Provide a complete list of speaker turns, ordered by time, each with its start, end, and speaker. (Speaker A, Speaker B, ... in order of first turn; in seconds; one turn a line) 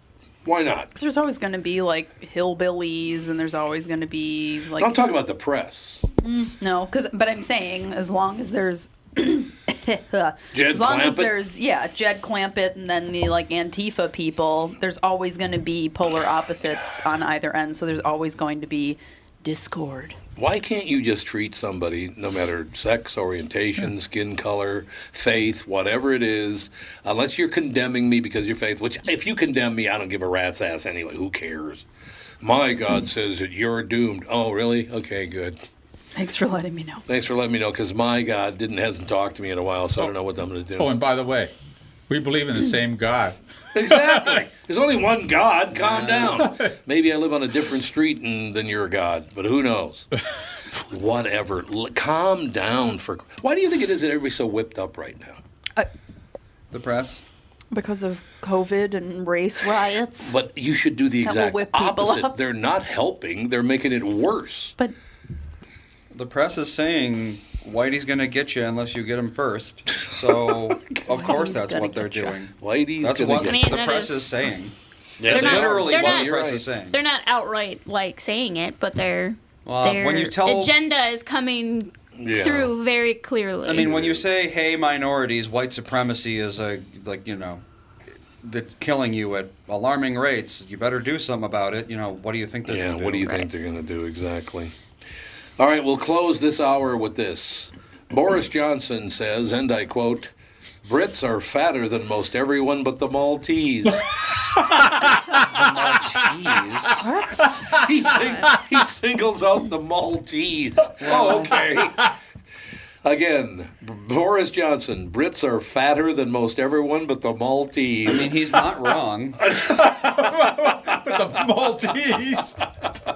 Speaker A: 0.5-0.9
Speaker B: 0.9-5.0
Speaker A: 4.8-6.0
Speaker B: 6.2-20.2
Speaker A: 10.5-11.3
Speaker A: 20.4-31.9
Speaker A: 32.4-35.6
Speaker B: 36.1-37.0
Speaker A: 37.1-40.9
Speaker C: 40.8-41.5
Speaker C: 42.1-44.3
Speaker A: 43.7-50.1
Speaker D: 45.7-46.5
Speaker A: 50.9-55.4
Speaker D: 56.7-57.2
Speaker B: 57.7-60.4
Speaker A: 60.3-64.8
Speaker B: 61.2-62.4
Speaker D: 66.1-77.0
Speaker A: 70.9-71.3
Speaker B: 71.1-72.4
Speaker A: 72.6-73.8
Speaker E: 73.4-74.3
Speaker A: 75.2-76.6
Speaker E: 75.3-83.9
Speaker D: 79.7-80.8
Speaker A: 82.2-82.7
Speaker D: 83.6-87.6
Speaker A: 83.8-84.2
Speaker D: 88.4-93.5
Speaker A: 92.7-94.8
Speaker A: 95.6-100.3
Speaker A: 100.8-104.1
Speaker C: 104.6-105.2
Speaker D: 105.0-107.0
Speaker B: 107.0-107.6
Speaker A: 107.8-112.1
Speaker D: 111.0-111.7
Speaker A: 113.0-118.6
Speaker D: 118.0-119.4
Speaker A: 119.5-121.4
Speaker C: 119.6-122.6